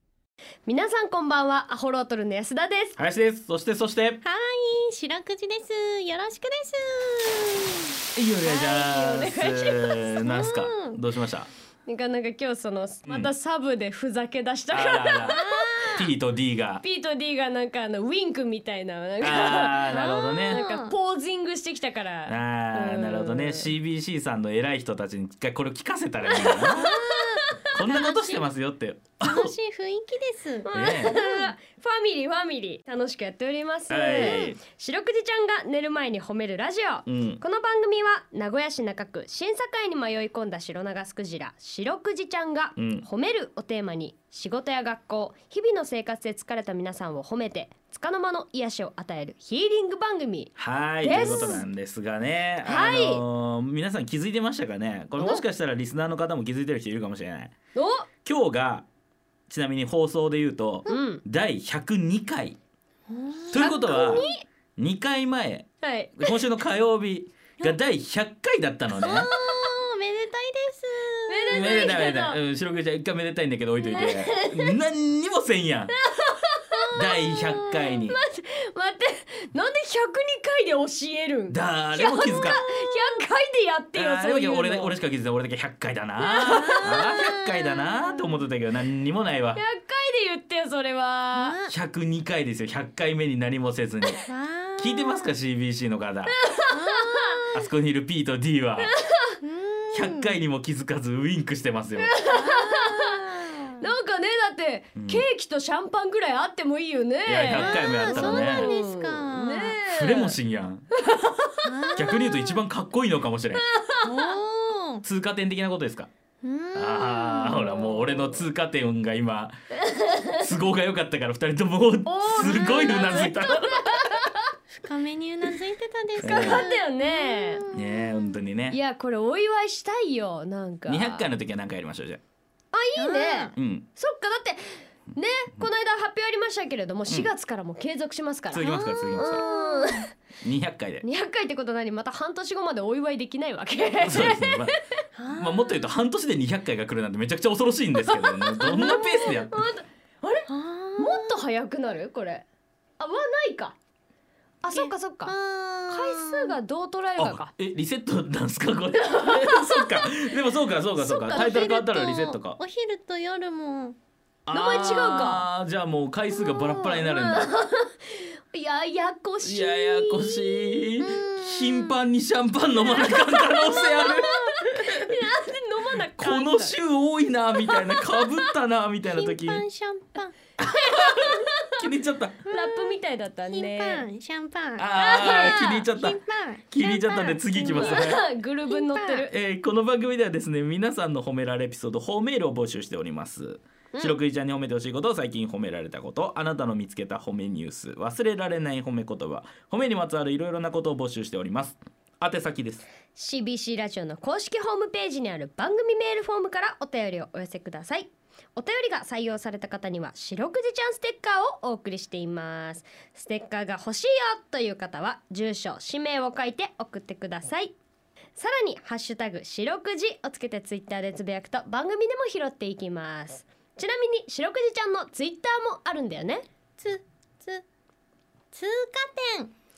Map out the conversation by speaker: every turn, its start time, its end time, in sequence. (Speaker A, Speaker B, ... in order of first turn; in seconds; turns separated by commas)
Speaker A: 0.7-3.0, Speaker B: 3.0-4.2, Speaker C: 4.2-7.9, Speaker B: 8.1-11.5, Speaker A: 8.4-10.2, Speaker C: 10.2-11.0, Speaker A: 11.8-16.0, Speaker B: 13.1-13.3, Speaker B: 14.7-15.4, Speaker C: 15.2-16.1, Speaker B: 15.9-16.8, Speaker A: 16.8-23.7, Speaker B: 19.2-20.6, Speaker C: 20.2-20.9, Speaker B: 22.3-26.9, Speaker A: 26.3-27.7, Speaker C: 26.7-28.5, Speaker B: 27.7-29.5, Speaker C: 29.2-31.5, Speaker A: 30.6-51.6, Speaker B: 30.7-31.2, Speaker B: 33.9-34.6, Speaker B: 37.0-37.4, Speaker B: 42.8-43.0, Speaker B: 50.5-57.5, Speaker C: 51.0-51.5, Speaker A: 52.6-53.2, Speaker A: 55.2-55.4, Speaker A: 57.7-58.1, Speaker B: 58.2-58.9, Speaker B: 59.5-62.6, Speaker A: 60.9-61.2, Speaker C: 63.1-64.3, Speaker B: 63.5-64.2, Speaker A: 63.5-64.5, Speaker B: 64.8-69.3, Speaker A: 65.8-66.4, Speaker C: 68.9-71.9, Speaker A: 71.3-72.4, Speaker B: 71.5-75.9, Speaker A: 73.8-74.8, Speaker A: 75.9-84.9, Speaker C: 76.7-77.2, Speaker B: 76.9-78.2, Speaker B: 81.5-82.6, Speaker B: 83.9-89.6, Speaker A: 86.2-87.1, Speaker C: 86.4-87.9, Speaker A: 89.5-91.6, Speaker C: 91.3-91.7, Speaker B: 91.7-94.2, Speaker C: 94.2-95.3, Speaker B: 94.8-96.4, Speaker A: 96.4-96.8, Speaker C: 96.7-97.7, Speaker B: 97.5-98.9, Speaker A: 98.8-99.3, Speaker C: 99.4-100.4, Speaker B: 99.9-102.1, Speaker A: 102.0-103.2, Speaker C: 102.2-103.8, Speaker A: 103.8-110.4, Speaker B: 105.0-105.2, Speaker B: 107.2-108.7, Speaker C: 107.5-109.8, Speaker B: 109.8-110.9, Speaker A: 111.0-112.0, Speaker C: 111.6-112.5, Speaker B: 111.9-113.6, Speaker A: 113.5-114.3, Speaker C: 114.0-115.0, Speaker B: 115.0-116.1, Speaker C: 116.4-118.1, Speaker B: 116.7-124.2, Speaker A: 119.9-120.5, Speaker A: 122.0-124.5, Speaker C: 124.7-128.4, Speaker B: 126.2-126.6, Speaker A: 126.2-127.6, Speaker B: 127.7-128.8, Speaker A: 128.7-131.3, Speaker B: 130.9-132.2, Speaker A: 132.7-140.1, Speaker C: 132.9-133.5, Speaker B: 133.6-133.9, Speaker B: 138.5-139.4, Speaker C: 138.5-140.1, Speaker B: 140.4-141.0, Speaker A: 141.0-144.8, Speaker B: 144.0-144.7, Speaker C: 145.2-146.0, Speaker B: 145.3-149.6, Speaker A: 148.0-150.5, Speaker C: 150.5-151.3, Speaker A: 151.0-152.4, Speaker A: 153.0-153.8, Speaker A: 154.6-155.3, Speaker C: 154.7-156.6, Speaker A: 155.9-157.5, Speaker B: 157.2-162.6, Speaker A: 158.9-160.3, Speaker A: 160.9-161.8, Speaker C: 161.3-164.0, Speaker B: 164.4-167.5, Speaker A: 164.5-165.5, Speaker A: 166.3-170.8, Speaker B: 169.4-175.1, Speaker C: 171.0-172.0, Speaker A: 172.8-176.8, Speaker B: 176.2-179.6, Speaker A: 177.6-178.5, Speaker C: 179.1-180.4, Speaker B: 180.6-182.4, Speaker A: 180.6-181.8, Speaker C: 182.4-186.7, Speaker A: 182.5-184.1, Speaker B: 184.8-186.2, Speaker A: 184.9-185.9, Speaker B: 186.7-188.2, Speaker A: 186.8-189.3, Speaker C: 187.3-188.2, Speaker C: 188.7-189.3, Speaker B: 189.3-202.8, Speaker A: 203.1-217.8, Speaker A: 218.3-226.4, Speaker C: 226.8-227.6, Speaker C: 228.5-229.5